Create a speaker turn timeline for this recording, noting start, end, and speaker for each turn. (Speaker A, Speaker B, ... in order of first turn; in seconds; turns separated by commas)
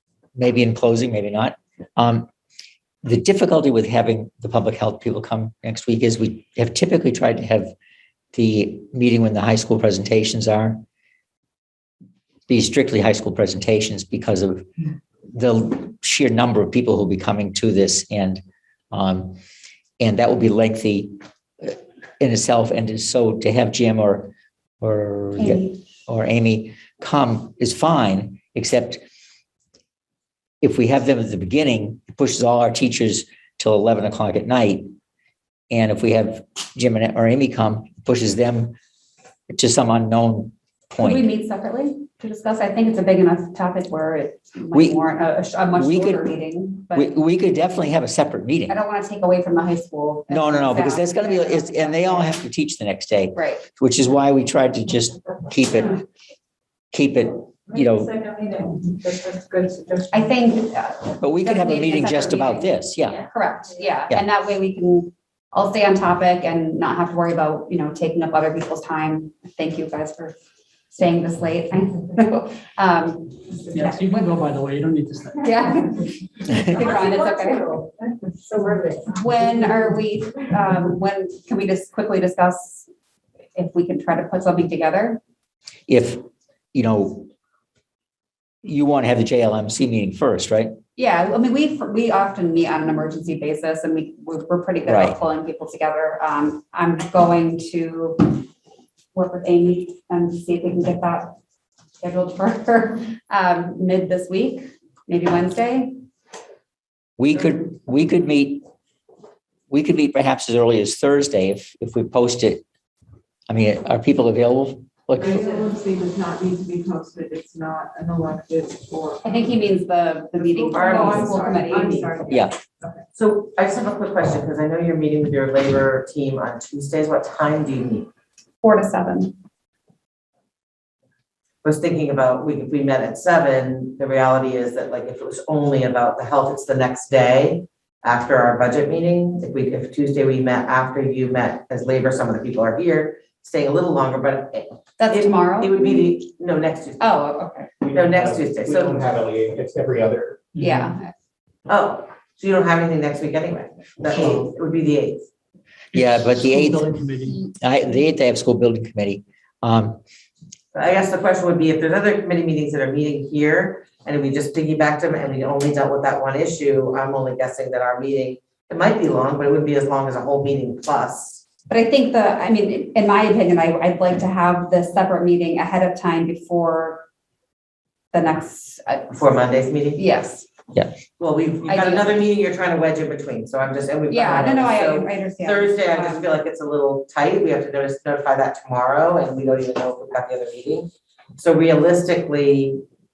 Speaker A: 0.3-2.3, Speaker A: 3.0-7.7, Speaker A: 8.3-10.8, Speaker A: 12.5-14.7, Speaker A: 15.3-18.4, Speaker A: 18.9-19.4, Speaker A: 20.0-29.0, Speaker B: 25.4-25.8, Speaker A: 30.6-34.9, Speaker A: 35.7-38.7, Speaker A: 39.5-41.2, Speaker B: 41.0-47.1, Speaker A: 44.7-45.0, Speaker A: 45.7-46.2, Speaker A: 46.9-48.8, Speaker B: 48.7-52.4, Speaker A: 50.3-56.0, Speaker B: 53.3-53.6, Speaker A: 56.9-58.1, Speaker C: 57.7-60.3, Speaker B: 60.1-70.3, Speaker A: 61.2-63.3, Speaker B: 70.9-74.4, Speaker D: 73.7-75.5, Speaker B: 75.4-77.8, Speaker C: 76.7-79.5, Speaker B: 79.0-82.9, Speaker B: 83.5-85.2, Speaker A: 85.9-86.2, Speaker A: 86.7-87.3, Speaker A: 88.6-90.7, Speaker B: 91.0-98.5, Speaker A: 94.8-95.2, Speaker B: 99.1-101.3, Speaker B: 102.0-106.0, Speaker A: 107.2-108.6, Speaker A: 109.7-112.6, Speaker A: 113.5-115.4, Speaker C: 115.1-119.4, Speaker B: 119.2-122.1, Speaker C: 120.5-123.0, Speaker E: 120.7-122.1, Speaker A: 122.3-122.5, Speaker E: 123.2-128.1, Speaker B: 128.6-129.3, Speaker E: 131.6-147.1, Speaker B: 145.0-146.1, Speaker B: 147.0-147.7, Speaker F: 147.8-150.5, Speaker E: 147.9-149.1, Speaker D: 150.6-150.9, Speaker B: 150.6-151.1, Speaker E: 151.7-155.3, Speaker A: 155.9-156.9, Speaker D: 155.9-157.4, Speaker A: 157.4-160.0, Speaker E: 160.7-171.4, Speaker B: 171.7-177.0, Speaker B: 178.1-179.1, Speaker E: 179.1-180.0, Speaker B: 179.9-180.4, Speaker E: 181.2-192.8, Speaker B: 181.7-182.1, Speaker B: 184.1-186.3